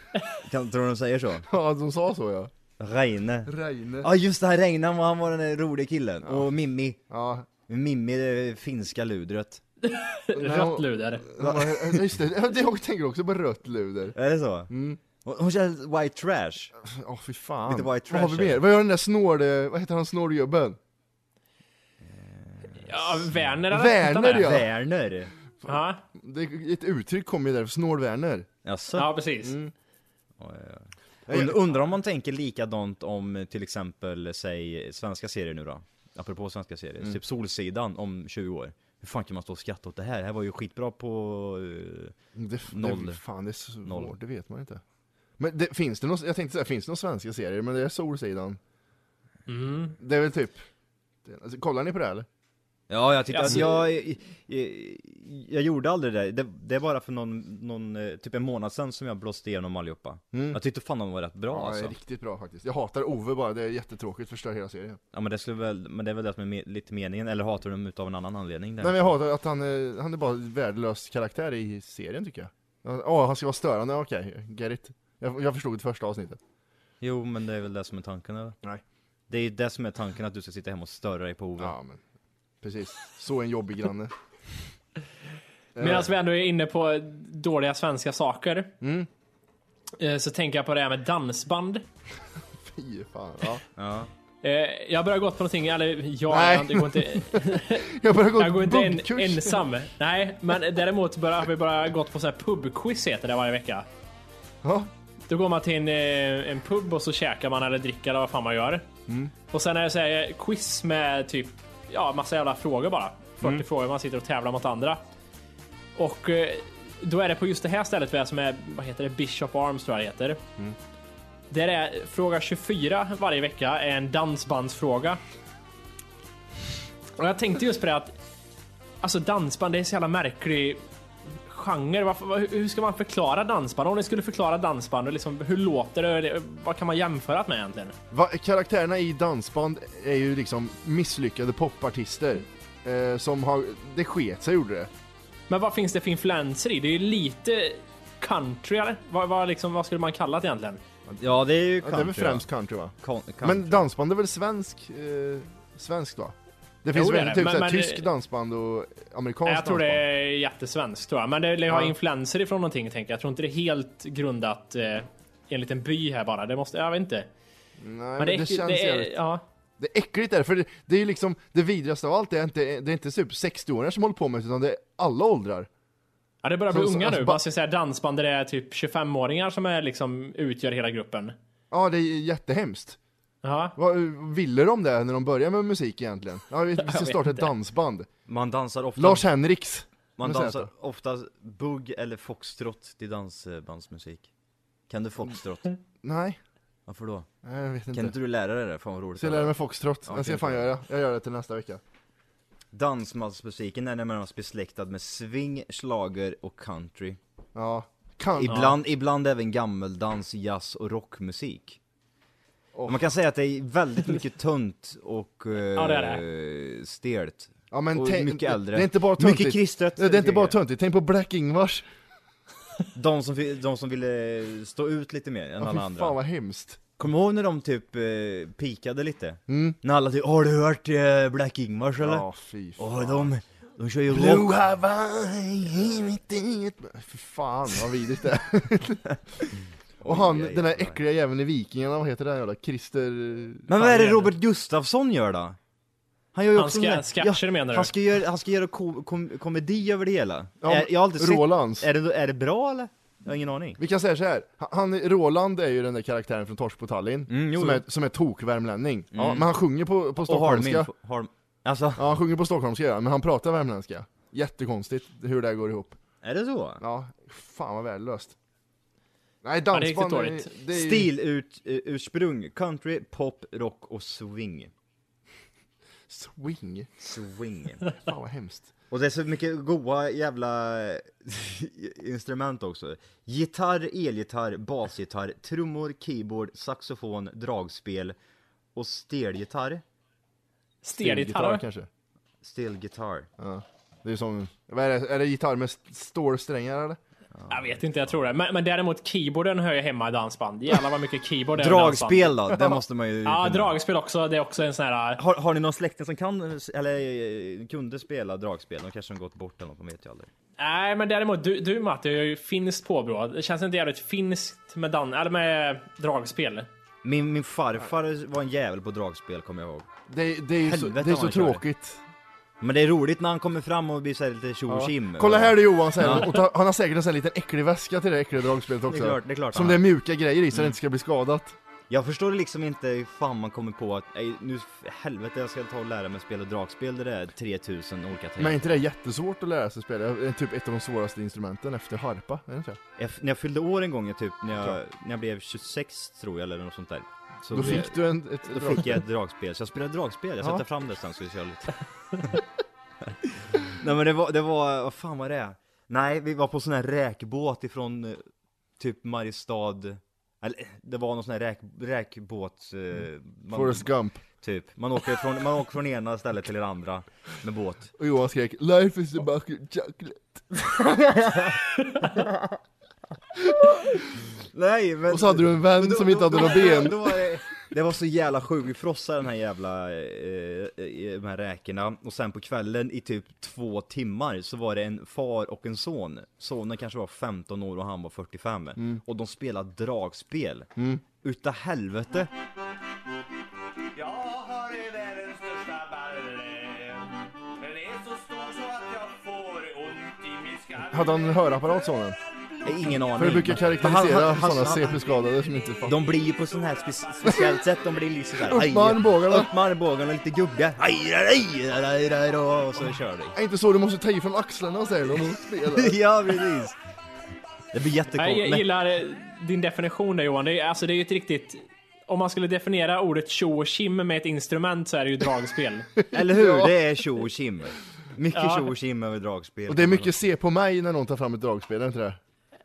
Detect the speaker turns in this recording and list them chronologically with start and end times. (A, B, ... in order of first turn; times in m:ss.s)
0:00.4-0:01.4 A
0:01.4-0:02.5 B
0:02.8-0:07.0 A
0:03.4-0:04.1 B
0:07.1-0:07.5 B
0:07.7-0:09.6 A
0:09.8-0:11.2 C
0:10.3-0:14.2 B
0:11.4-0:12.0 A
0:14.2-0:14.7 A
0:14.7-0:15.0 B
0:15.2-0:16.7 A
0:16.8-0:20.8 B
0:17.7-0:18.6 A
0:22.0-0:23.3 A
0:22.8-0:24.5 C
0:23.7-0:24.7 B
0:24.3-0:25.3 A
0:25.6-0:28.5 B
0:25.6-0:26.0 C
0:28.6-0:29.1 A
0:28.9-0:29.6 C
0:29.4-0:29.7 B
0:30.4-0:42.1 A
0:31.3-0:31.6 B
0:42.4-0:44.8 B
0:42.7-0:43.2 A
0:43.8-0:44.1 A
0:45.4-0:48.6 B
0:49.5-0:50.0 C
0:50.0-0:50.6 B
0:51.2-0:52.3 B
0:52.9-1:01.9 A
0:53.3-0:53.8 C
1:00.3-1:00.6 B
1:01.5-1:05.0 B
1:05.1-1:09.0 A
1:08.8-1:16.4 B
1:17.0-1:18.6 A
1:19.3-1:21.8 A
1:21.6-1:22.0 B
1:22.6-1:24.1 B
1:25.8-1:26.1 B
1:25.8-1:28.7 C
1:28.8-1:29.1 B
1:30.0-1:31.8 C
1:32.6-1:33.6 B
1:33.8-1:34.1 A
1:34.4-1:43.8 C
1:36.3-1:39.6 B
1:44.6-1:44.9 B
1:45.3-1:48.9 C
1:49.5-1:55.0 C
1:56.0-2:00.4 C
2:01.5-2:05.2 C
2:07.2-2:08.1 C
2:09.0-2:10.8 C
2:11.5-2:18.0 C
2:18.1-2:24.9 B
2:25.5-2:30.8 C
2:31.2-2:32.4 A
2:31.8-2:40.0 B
2:33.0-2:33.8 A
2:36.9-2:38.1 C
2:39.4-2:47.3 C
2:41.7-2:41.9 B
2:47.8-2:49.2 B
2:48.2-2:49.4 C
2:49.8-2:55.7 B
2:56.4-3:01.4 C
2:56.7-2:57.4 B
3:01.7-3:03.0 B
3:03.4-3:03.8 C
3:03.8-3:08.1 B
3:06.8-3:07.5 C
3:08.3-3:09.3 A
3:09.0-3:10.7 B
3:10.2-3:14.3 A
3:14.9-3:15.7 A
3:16.0-3:16.4 B
3:16.9-3:17.3 A
3:17.4-3:18.1 B
3:17.9-3:19.5 A
3:19.2-3:21.8 B
3:20.0-3:20.7 A
3:22.7-3:27.2 A
3:27.5-3:28.7 B
3:28.4-3:31.8 A
3:32.7-3:33.0 B
3:32.8-3:40.6 A
3:35.7-3:36.2 C
3:37.7-3:41.8 B
3:42.9-3:46.2 A
3:45.6-3:46.8 B
3:47.0-3:52.2 A
3:49.5-3:49.8 B
3:52.0-3:53.3 B
3:52.8-3:54.5 A
3:54.1-4:04.3 B
4:00.0-4:01.0 A
4:03.7-4:05.6 A
4:06.3-4:13.8 A
4:06.6-4:07.9 C
4:10.6-4:11.9 B
4:13.8-4:20.9 B
4:17.3-4:17.8 A
4:19.1-4:19.5 A
4:20.2-4:22.1 A
4:22.0-4:26.0 B
4:26.2-4:26.8 A
4:26.8-4:28.3 B
4:29.4-4:31.1 B
4:29.7-4:30.5 C
4:30.7-4:34.7 A
4:36.1-4:36.9 B
4:37.0-4:37.8 A
4:37.9-4:38.7 B
4:38.9-4:48.1 A
4:48.7-4:49.8 A
4:50.8-4:51.6 C
4:51.0-4:51.9 B
4:52.4-4:53.3 A
4:53.4-4:57.0 B
4:57.3-4:58.1 A
4:57.5-5:02.4 C
5:01.6-5:03.8 A
5:02.5-5:02.8 B
5:03.2-5:05.2 C
5:05.2-5:10.3 A
5:10.6-5:16.7 C
5:17.0-5:19.8 A
5:20.1-5:22.0 B
5:20.6-5:21.6 A
5:22.6-5:26.4 A
5:24.7-5:31.6 B
5:28.9-5:29.8 A
5:31.9-5:38.6 A
5:38.4-5:42.8 B
5:43.0-5:52.4 A
5:47.5-5:49.0 B
5:53.1-5:58.2 A
5:58.8-6:03.9 A
6:03.5-6:04.2 B
6:04.4-6:07.9 A
6:08.0-6:10.8 B
6:10.7-6:12.6 A
6:13.4-6:14.2 B
6:14.3-6:30.7 A
6:15.1-6:17.2 B
6:30.8-6:31.0 B
6:31.2-6:32.3 A
6:33.9-6:41.2 D
6:40.9-6:42.2 B
6:42.6-6:44.9 A
6:43.1-6:46.0 B
6:45.9-6:53.4 A
6:48.4-6:49.5 B
6:53.4-6:56.0 B
6:55.7-6:56.8 A
6:57.7-6:58.7 A
6:58.2-7:05.9 C
7:06.1-7:10.1 A
7:06.1-7:06.7 B
7:08.3-7:08.7 C
7:09.7-7:12.2 B